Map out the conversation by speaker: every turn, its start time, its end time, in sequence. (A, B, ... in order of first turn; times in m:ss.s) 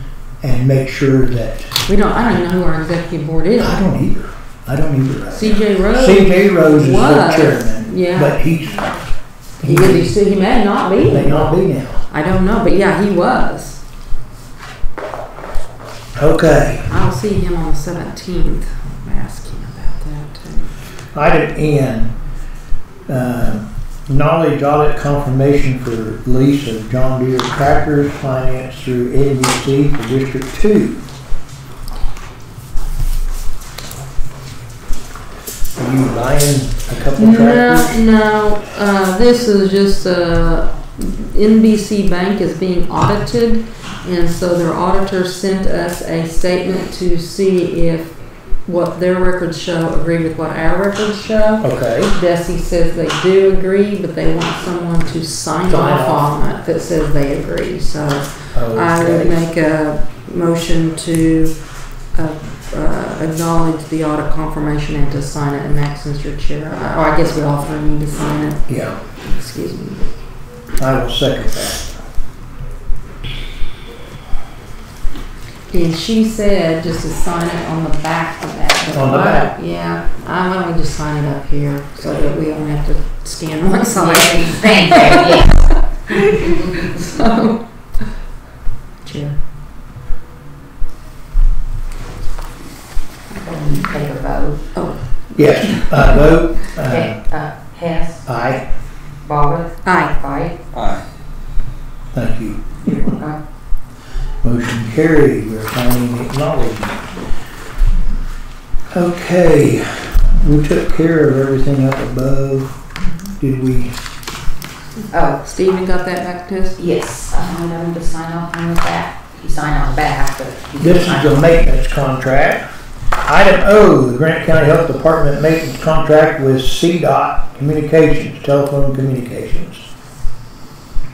0:00.4-0:01.7 A
0:01.8-0:03.8 B
0:03.6-0:08.9 A
0:05.3-0:08.4 B
0:09.6-0:10.1 A
0:09.6-0:11.6 B
0:11.0-0:12.0 A
0:12.1-0:13.8 B
0:16.2-0:16.9 A
0:16.9-0:20.7 B
0:21.1-0:22.1 A
0:23.1-0:31.0 A
0:35.8-0:38.0 A
0:37.2-0:48.1 B
0:48.6-1:01.5 B
0:51.6-0:52.1 A
0:55.7-0:56.2 A
0:58.5-0:59.4 A
1:02.1-1:10.1 B
1:08.7-1:09.0 A
1:10.8-1:11.9 A
1:15.7-1:25.4 B
1:18.9-1:19.5 A
1:23.9-1:27.2 C
1:26.1-1:28.0 B
1:29.0-1:29.4 B
1:33.4-1:34.6 C
1:34.7-1:36.3 B
1:35.3-1:37.2 A
1:36.8-1:38.2 C
1:38.2-1:38.6 A
1:39.2-1:40.6 C
1:39.8-1:40.1 B
1:42.1-1:43.1 A
1:44.4-1:47.1 A
1:48.9-1:52.7 A
1:53.4-1:53.9 A
1:55.1-1:55.4 C
1:55.4-1:56.8 B
1:56.8-2:01.5 C
2:00.8-2:02.6 A
2:03.2-2:09.8 A